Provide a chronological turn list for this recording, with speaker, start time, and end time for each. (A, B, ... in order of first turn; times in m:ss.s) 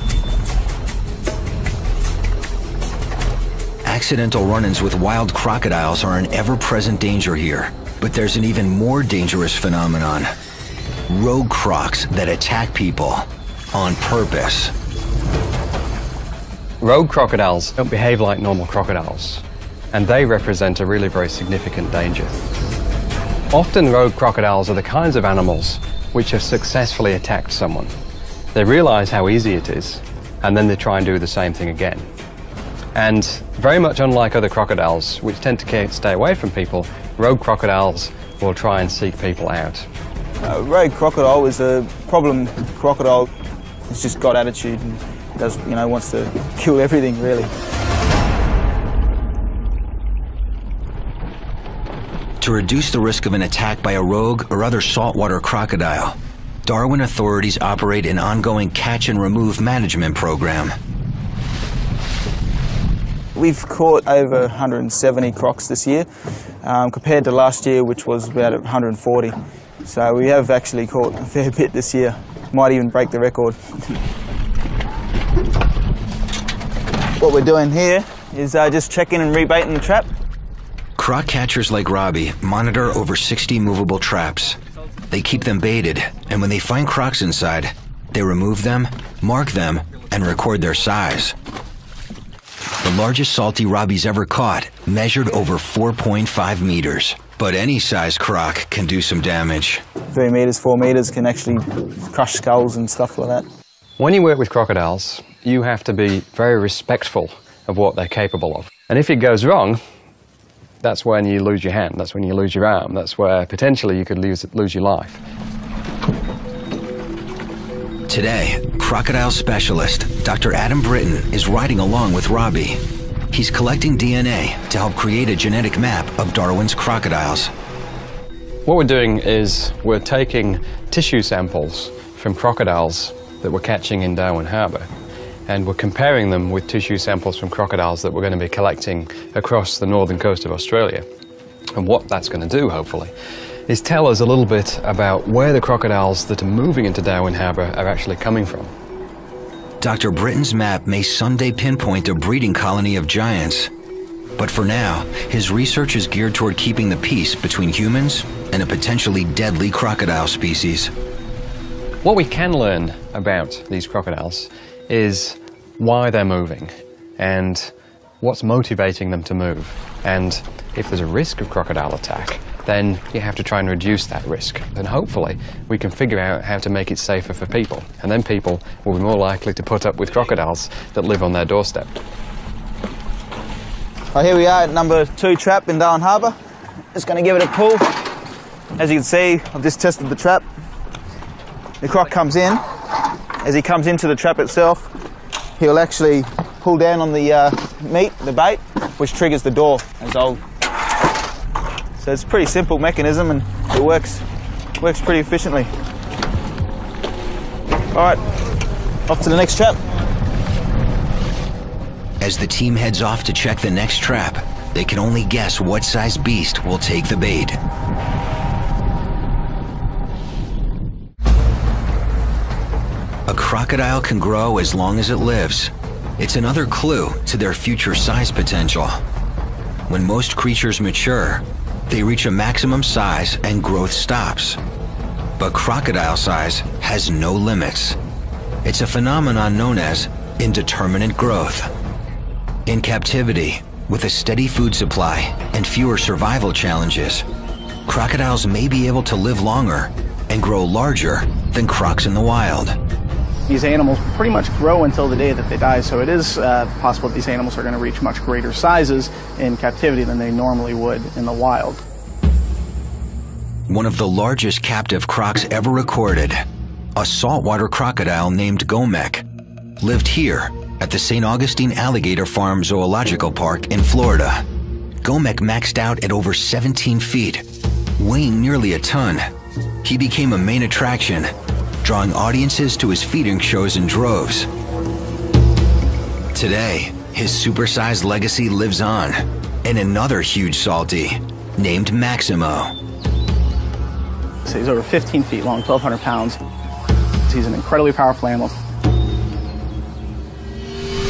0:03.8-0:10.3 A
0:11.1-0:14.7 A
0:16.8-0:22.4 B
0:23.5-0:27.9 B
0:28.5-0:32.1 B
0:32.9-0:39.9 B
0:40.4-0:43.3 C
0:43.9-0:47.5 C
0:52.4-1:00.8 A
1:03.4-1:06.1 C
1:06.6-1:14.0 C
1:17.2-1:20.1 C
1:21.0-1:24.6 A
1:25.1-1:31.4 A
1:32.8-1:39.8 A
1:40.1-1:43.5 C
1:44.0-1:49.8 B
1:50.8-1:55.2 B
1:58.1-2:07.5 A
2:08.6-2:14.9 B
2:15.5-2:21.1 B
2:21.8-2:23.1 B
2:23.7-2:28.7 B
2:29.8-2:33.7 A
2:34.4-2:40.9 A
2:42.0-3:01.9 B
3:04.1-3:06.4 C
3:06.9-3:08.0 C
3:08.8-3:10.4 C
3:11.8-3:12.6 C
3:13.4-3:14.9 C
3:15.6-3:20.4 C
3:22.0-3:24.2 C
3:24.8-3:25.7 C
3:27.9-3:28.3 C
3:29.1-3:29.8 C
3:32.2-3:37.6 A
3:43.3-3:49.0 A
3:49.9-3:54.6 A
3:55.4-3:58.0 A
3:58.6-4:01.7 A
4:02.6-4:07.2 A
4:07.9-4:12.8 A
4:13.5-4:21.8 D
4:23.7-4:26.4 A
4:27.0-4:29.2 A
4:29.8-4:34.4 A
4:35.0-4:37.4 A
4:38.0-4:39.3 A
4:39.8-4:44.5 A
4:46.3-4:52.7 A
4:54.4-4:56.4 D
4:57.2-4:58.6 D